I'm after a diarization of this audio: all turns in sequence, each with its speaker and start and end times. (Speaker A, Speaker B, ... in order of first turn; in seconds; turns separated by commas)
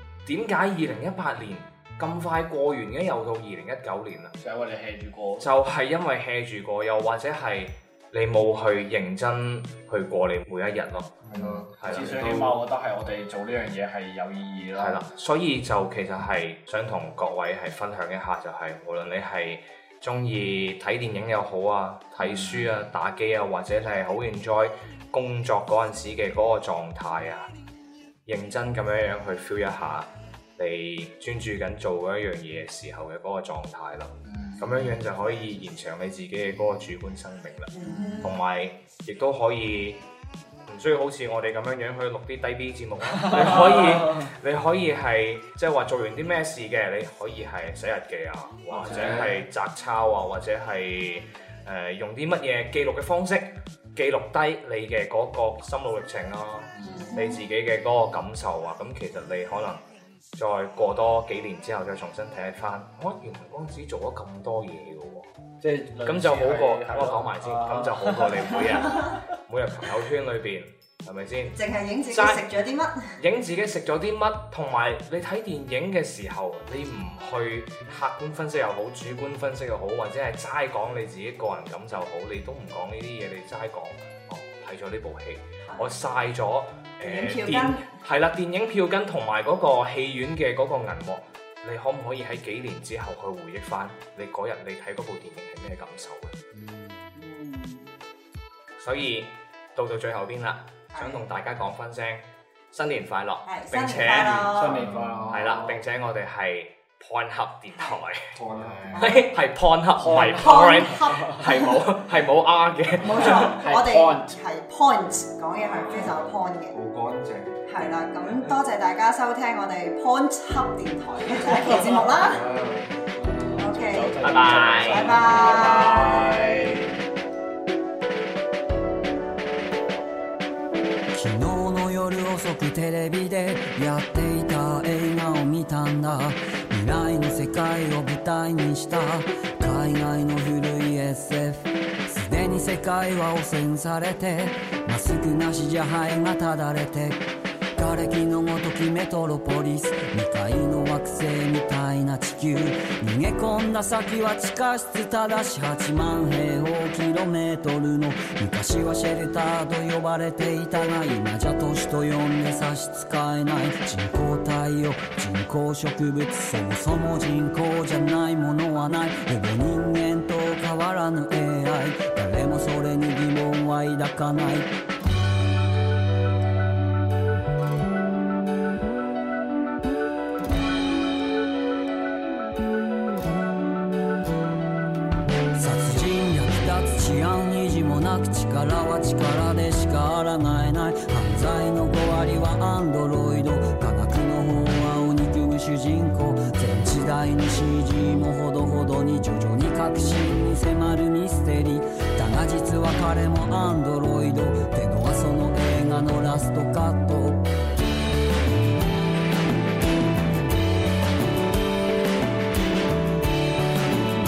Speaker A: 0.2-4.3, Speaker B: 4.4-5.5, Speaker A: 5.4-11.1, Speaker C: 11.2-12.6, Speaker B: 11.3-15.0, Speaker A: 11.8-12.2, Speaker A: 14.8-27.5, Speaker B: 22.2-22.8, Speaker A: 28.2-40.0, Speaker B: 34.3-35.0, Speaker D: 37.7-38.3, Speaker B: 37.8-38.3, Speaker A: 40.7-59.8, Speaker B: 43.2-44.2, Speaker B: 48.7-49.4, Speaker B: 56.8-57.1, Speaker D: 56.9-57.4, Speaker A: 60.4-65.3, Speaker B: 65.6-69.2, Speaker A: 66.0-71.6, Speaker D: 71.5-73.1, Speaker A: 72.1-72.4, Speaker A: 73.2-96.4, Speaker D: 85.7-85.9, Speaker D: 87.0-87.9, Speaker B: 96.5-97.0, Speaker D: 97.1-97.9, Speaker A: 98.8-104.8, Speaker D: 100.9-101.3, Speaker D: 103.5-104.8, Speaker B: 104.5-105.8, Speaker C: 104.7-105.4, Speaker A: 105.3-108.4, Speaker C: 108.3-109.0, Speaker B: 108.5-109.1, Speaker D: 108.9-109.3, Speaker A: 109.0-113.6, Speaker B: 110.0-111.4, Speaker D: 110.3-111.8, Speaker D: 113.0-116.8, Speaker B: 113.1-114.3, Speaker B: 115.6-116.1, Speaker C: 116.7-117.6, Speaker D: 117.7-122.4, Speaker C: 122.2-122.9, Speaker B: 123.2-126.9, Speaker D: 123.5-126.7, Speaker A: 124.2-125.9, Speaker E: 131.1-174.7, Speaker E: 185.5-207.4